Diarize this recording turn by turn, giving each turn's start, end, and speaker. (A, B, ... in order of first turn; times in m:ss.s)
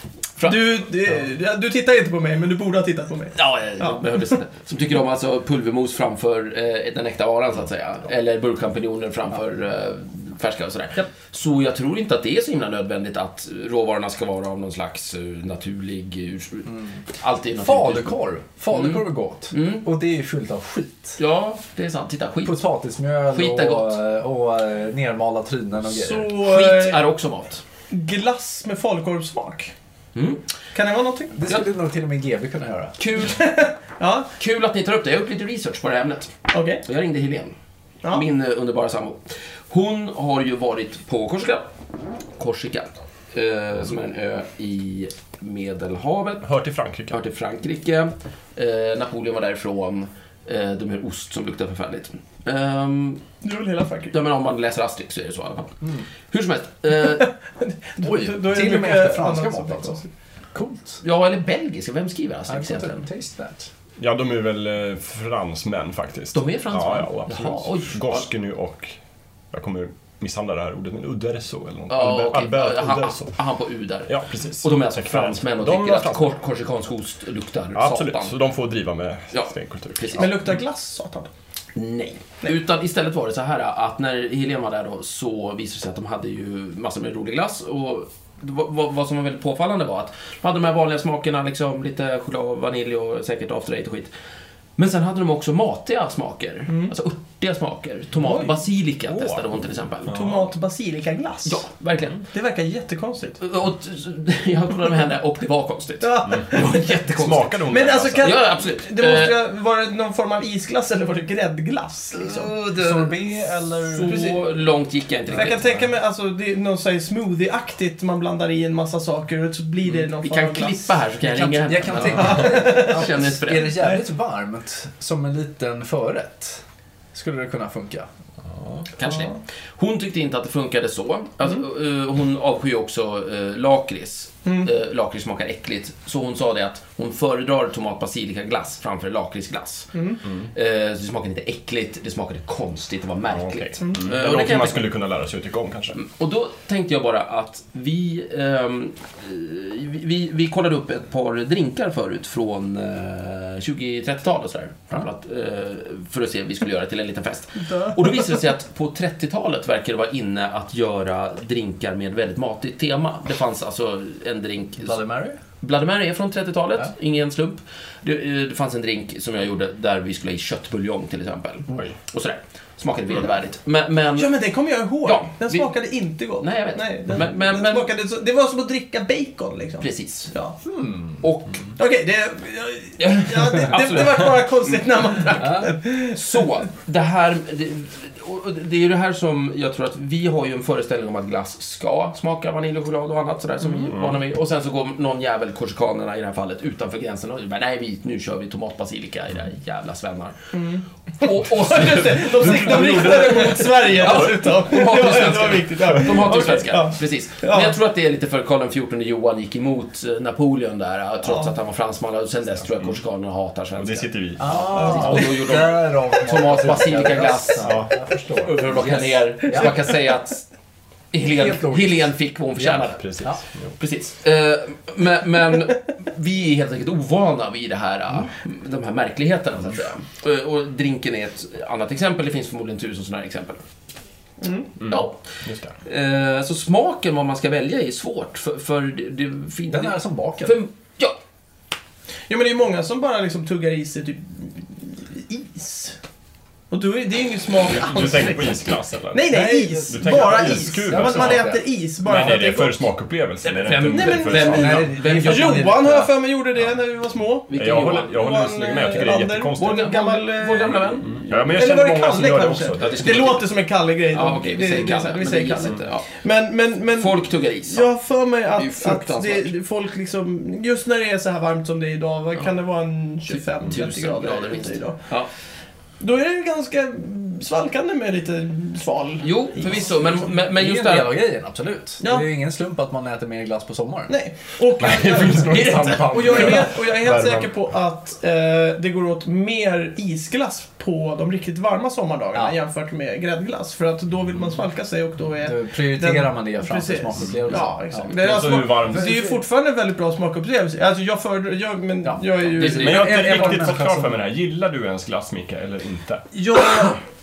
0:00.5-0:04.0 A
0:03.4-0:18.2 B
0:17.6-0:21.2 C
0:18.7-0:19.9 B
0:21.2-0:22.6 B
0:22.4-0:26.3 C
0:23.3-0:24.0 B
0:25.9-0:27.0 A
0:26.3-0:27.6 B
0:27.9-0:29.7 A
0:30.2-0:30.4 B
0:30.7-0:31.4 A
0:31.3-0:33.0 C
0:33.0-0:33.4 B
0:33.2-0:34.3 A
0:34.4-0:37.5 B
0:36.5-0:36.8 A
0:38.1-0:41.7 B
0:42.4-0:46.5 B
0:46.4-0:47.2 D
0:47.1-0:53.2 B
0:53.4-0:54.2 A
0:54.1-0:55.8 B
0:56.3-0:57.3 B
0:57.0-1:00.0 A
0:58.0-1:00.0 C
1:00.5-1:01.0 C
1:01.0-1:03.0 B
1:02.5-1:03.7 C
1:04.0-1:09.0 D
1:06.3-1:08.3 B
1:09.5-1:13.3 D
1:11.9-1:18.3 B
1:14.1-1:16.4 D
1:17.8-1:20.3 D
1:19.3-1:20.4 B
1:20.2-1:21.3 A
1:21.8-1:34.1 B
1:34.8-1:40.4 B
1:36.7-1:36.9 A
1:38.2-1:38.6 A
1:40.1-1:41.6 A
1:41.4-1:42.2 B
1:42.3-1:43.4 A
1:43.4-1:47.6 B
1:46.0-1:47.0 A
1:46.3-1:46.6 D
1:47.2-1:48.4 D
1:47.7-1:52.5 A
1:48.2-1:49.4 B
1:52.1-1:54.4 C
1:53.9-1:55.7 B
1:54.1-1:54.4 A
1:55.3-2:01.0 A
1:59.9-2:03.8 B
2:01.2-2:06.6 C
2:02.0-2:04.0 A
2:07.1-2:08.1 C
2:08.6-2:08.8 D
2:09.0-2:24.9 B
2:09.0-2:09.4 A
2:19.9-2:20.2 A
2:23.3-2:26.0 D
2:23.8-2:24.1 A
2:25.9-2:45.0 B
2:37.6-2:38.2 A
2:44.8-2:45.4 C
2:45.6-2:54.4 B
2:54.2-3:00.6 A
2:55.0-2:55.7 B
2:56.4-2:57.9 B
2:59.8-3:00.3 B
3:00.6-3:01.2 C
3:01.2-3:01.7 B
3:01.8-3:06.4 A
3:03.0-3:05.4 B
3:05.4-3:05.8 C
3:06.0-3:20.4 B
3:20.5-3:27.8 A
3:21.2-3:37.8 B
3:21.6-3:24.3 D
3:25.9-3:26.8 D
3:31.2-3:31.5 A
3:33.8-3:35.2 D
3:34.4-3:39.9 C
3:34.8-3:35.3 A
3:37.6-3:38.5 D
3:38.4-3:40.4 B
3:41.1-3:43.2 B
3:41.2-3:42.1 C
3:42.6-3:43.7 D
3:43.8-3:53.6 B
3:54.4-3:54.7 A
3:54.8-3:55.8 D
3:54.9-3:55.2 B
3:55.8-4:01.2 B
3:59.7-4:00.6 C
4:02.3-4:06.0 A
4:06.7-4:12.9 A
4:07.7-4:11.5 D
4:09.3-4:11.6 C
4:12.0-4:14.9 D
4:13.4-4:15.8 B
4:13.9-4:35.0 A
4:14.5-4:16.1 C
4:17.5-4:18.2 B
4:17.5-4:20.0 D
4:19.6-4:21.7 B
4:21.1-4:23.3 D
4:22.8-4:23.5 B
4:24.1-4:26.1 B
4:27.0-4:27.9 B
4:28.6-4:29.5 B
4:33.3-4:35.3 B
4:36.0-4:40.2 A
4:39.2-4:41.2 B
4:40.3-4:44.1 C
4:44.1-5:03.8 A
4:44.8-4:47.5 D
4:45.8-4:46.6 B
4:55.4-4:58.2 C
4:58.1-4:59.3 D
4:58.9-4:59.4 C
5:02.0-5:04.2 C
5:02.6-5:03.1 B
5:02.7-5:06.2 D
5:06.3-5:07.0 A